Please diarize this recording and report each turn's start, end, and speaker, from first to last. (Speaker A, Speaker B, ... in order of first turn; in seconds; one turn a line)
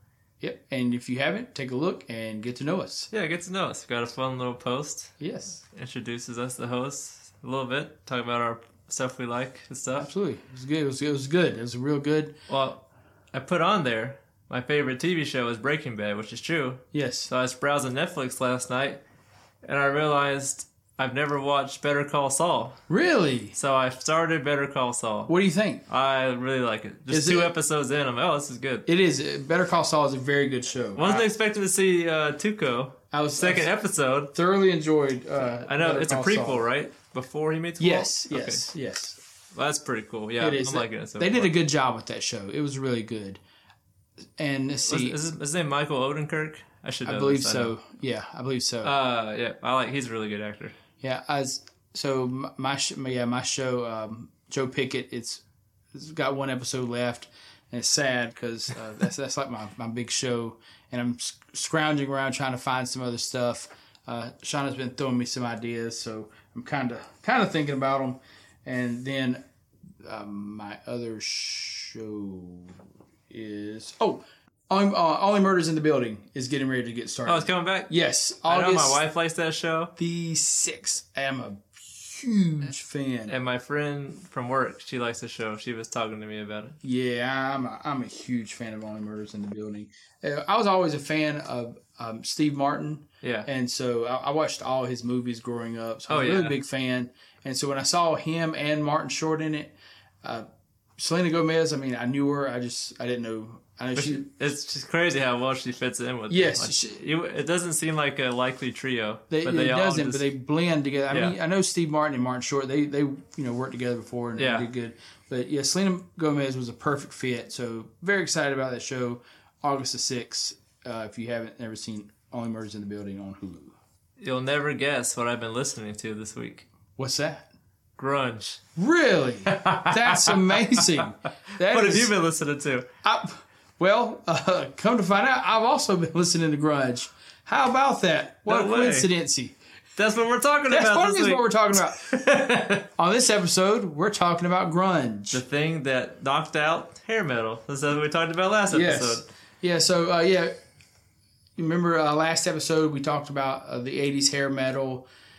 Speaker A: 0.4-3.1
Speaker B: 3.1-5.2
Speaker A: 5.2-5.6
Speaker B: 5.7-10.1
Speaker A: 10.0-12.3
Speaker B: 12.5-19.0
Speaker A: 16.9-17.3
Speaker B: 19.6-22.8
Speaker A: 22.9-23.6
Speaker B: 23.6-25.3
Speaker A: 25.3-25.8
Speaker B: 25.9-28.9
Speaker A: 27.1-27.5
Speaker A: 28.9-31.2
Speaker B: 31.0-34.3
Speaker A: 33.1-33.7
Speaker A: 34.3-36.6
Speaker B: 35.7-38.6
Speaker A: 37.8-39.2
Speaker B: 39.5-41.5
Speaker A: 40.4-43.4
Speaker A: 44.4-45.2
Speaker B: 44.9-47.8
Speaker A: 47.1-48.9
Speaker B: 48.8-50.8
Speaker A: 51.0-55.4
Speaker A: 55.9-69.4
Speaker A: 70.0-72.8
Speaker A: 73.3-79.0
Speaker B: 77.3-77.9
Speaker B: 78.5-79.9
Speaker A: 80.0-83.3
Speaker B: 83.3-86.8
Speaker A: 86.8-100.5
Speaker B: 93.2-93.5
Speaker B: 96.1-96.6
Speaker A: 101.0-104.3
Speaker B: 104.0-110.2
Speaker A: 106.3-107.0
Speaker A: 109.3-123.8
Speaker B: 111.1-111.3
Speaker B: 114.4-114.7
Speaker B: 124.2-126.7
Speaker A: 127.0-127.5
Speaker B: 128.0-128.6
Speaker A: 128.8-132.1
Speaker B: 129.5-131.1
Speaker B: 131.6-132.9
Speaker A: 133.0-139.6
Speaker B: 138.5-139.1
Speaker B: 140.0-142.9
Speaker A: 140.7-142.0
Speaker A: 143.0-145.4
Speaker B: 145.3-149.3
Speaker A: 148.7-150.5
Speaker A: 151.6-155.1